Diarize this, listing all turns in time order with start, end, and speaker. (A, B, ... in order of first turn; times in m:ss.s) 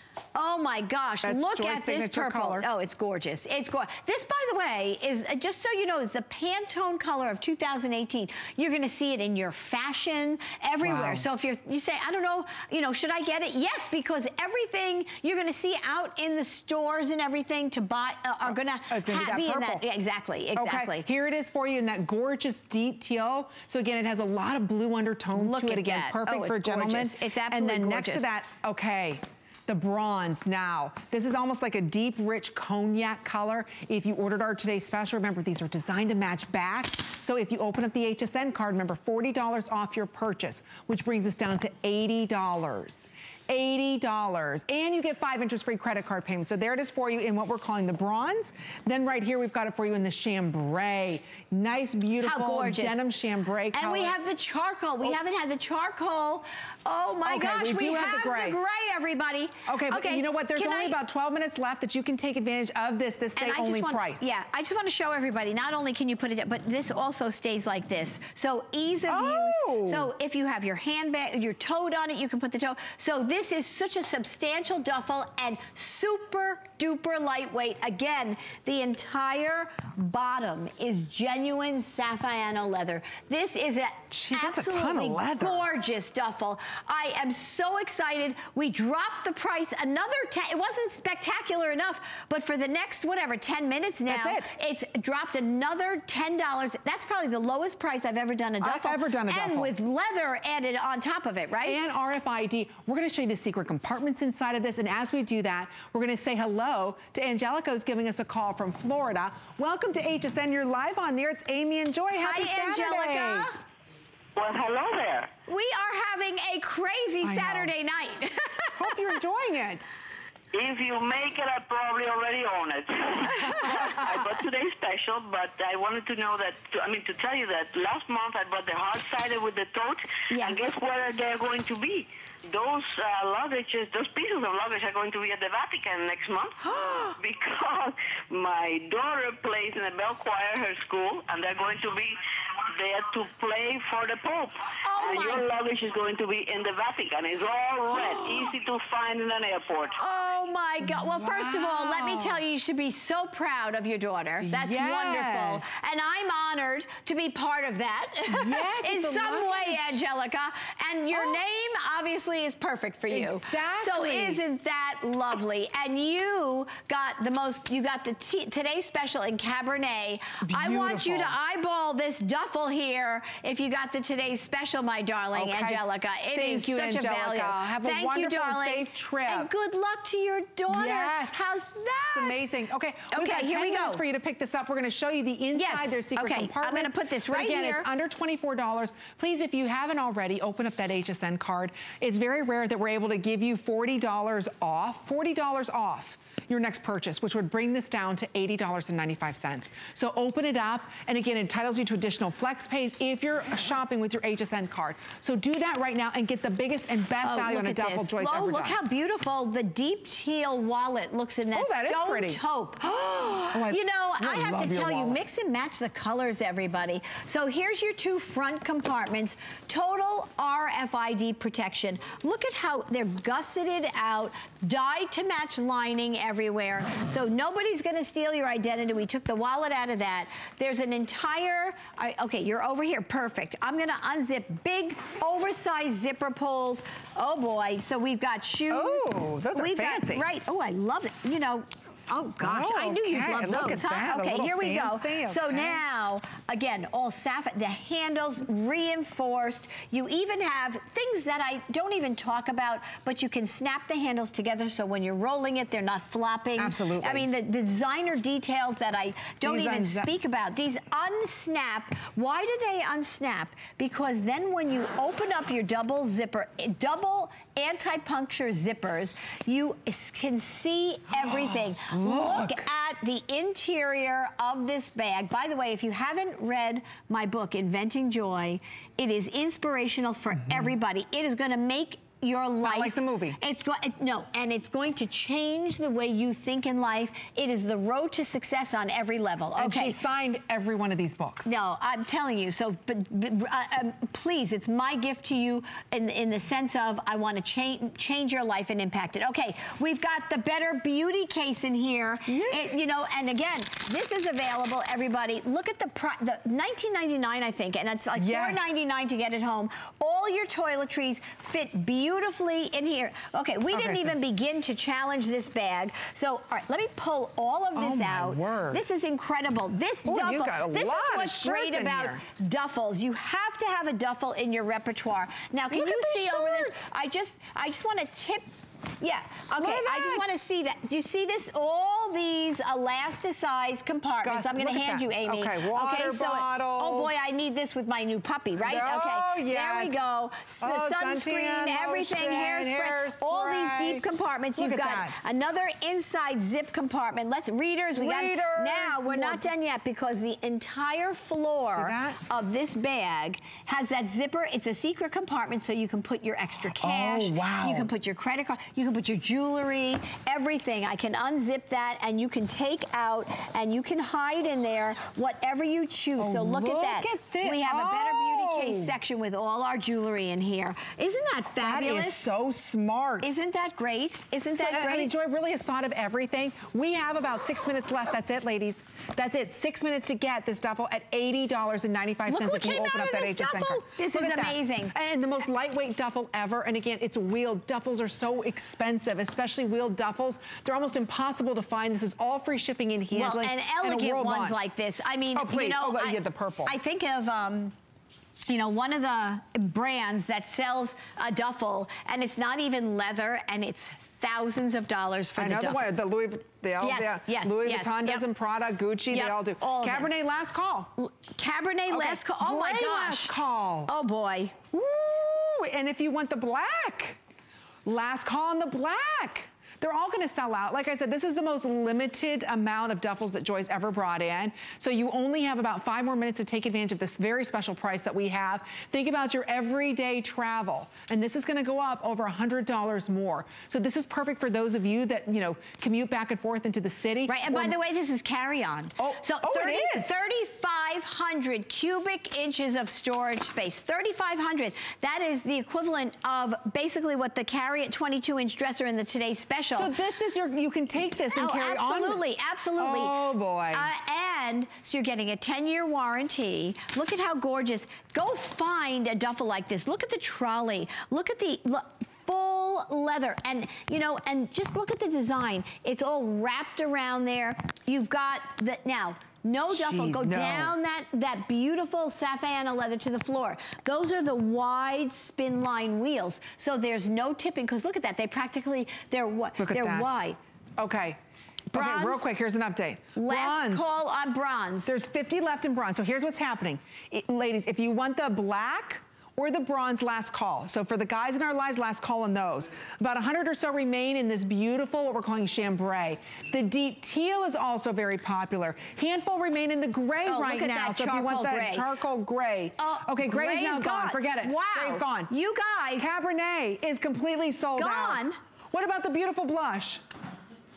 0:00.3-0:21.1 A
0:01.2-0:02.7 B
0:10.8-0:11.2 B
0:18.4-0:19.8 B
0:20.5-0:54.2 B
0:25.3-0:28.3 A
0:52.2-0:53.0 A
0:53.7-1:01.0 A
0:57.2-0:58.6 B
0:59.7-1:04.2 B
1:03.4-1:41.8 A
1:09.1-1:10.1 B
1:24.1-1:25.6 B
1:34.1-1:34.6 B
1:38.6-1:39.7 B
1:41.6-1:53.5 B
1:52.2-1:53.6 A
1:54.3-1:55.3 C
1:55.5-1:59.1 A
1:57.2-1:57.7 B
1:58.8-1:59.9 B
2:00.5-2:30.0 C
2:03.4-2:03.8 A
2:03.6-2:04.0 B
2:10.3-2:10.6 A
2:16.6-2:17.1 A
2:24.8-2:25.4 A
2:28.0-2:28.5 B
2:30.0-3:02.4 A
2:30.8-2:32.4 B
2:34.4-2:35.7 B
2:38.3-2:40.0 B
2:41.1-2:41.4 B
2:43.1-2:44.4 B
2:50.4-2:51.3 B
2:55.3-2:55.8 B
2:56.3-2:59.5 B
3:00.7-3:01.6 B
3:02.1-3:28.8 B
3:03.1-3:04.0 A
3:05.5-3:07.9 A
3:27.2-4:50.0 A
3:31.5-3:32.4 B
3:33.5-3:35.3 B
3:58.7-4:00.2 B
4:02.4-4:05.8 B
4:16.6-4:17.3 B
4:19.4-4:20.1 B
4:31.1-4:32.7 B
4:42.6-4:43.4 B
4:49.6-4:51.5 B
4:51.4-5:28.5 A
5:02.3-5:02.7 B
5:08.2-5:08.6 B
5:13.7-5:14.2 B
5:17.7-5:18.8 B
5:20.0-5:22.2 B
5:25.7-5:26.8 B
5:29.0-6:12.2 A
5:29.5-5:30.3 B
5:34.2-5:37.1 B
5:38.6-5:40.0 B
5:40.6-5:45.2 B
5:47.9-5:49.4 B
5:51.7-5:52.2 B
5:56.8-5:57.9 B
6:06.2-6:08.9 B
6:11.6-6:13.3 B
6:13.2-6:15.1 A
6:14.5-6:34.6 B
6:22.3-6:24.9 A
6:33.1-6:37.7 A
6:35.3-6:36.7 B
6:38.4-6:45.9 A
6:45.4-6:50.9 B
6:46.8-6:48.2 A
6:49.1-6:50.1 A
6:51.0-6:53.4 A
6:51.9-6:53.9 B
6:53.9-6:54.6 A
6:54.7-6:57.2 B
6:57.8-7:17.8 B
7:17.3-7:29.9 A
7:19.0-7:20.1 B
7:29.7-7:32.2 B
7:31.3-7:33.2 A
7:32.8-7:33.9 B
7:33.7-8:00.4 A
7:49.7-7:50.8 B
7:59.6-8:00.1 B
8:00.8-8:01.2 B
8:01.7-8:03.8 B
8:01.7-8:02.3 A
8:03.2-8:04.9 A
8:04.8-8:25.3 B
8:20.2-8:21.9 A
8:22.8-8:26.1 A
8:26.0-8:30.0 B
8:27.8-8:28.4 A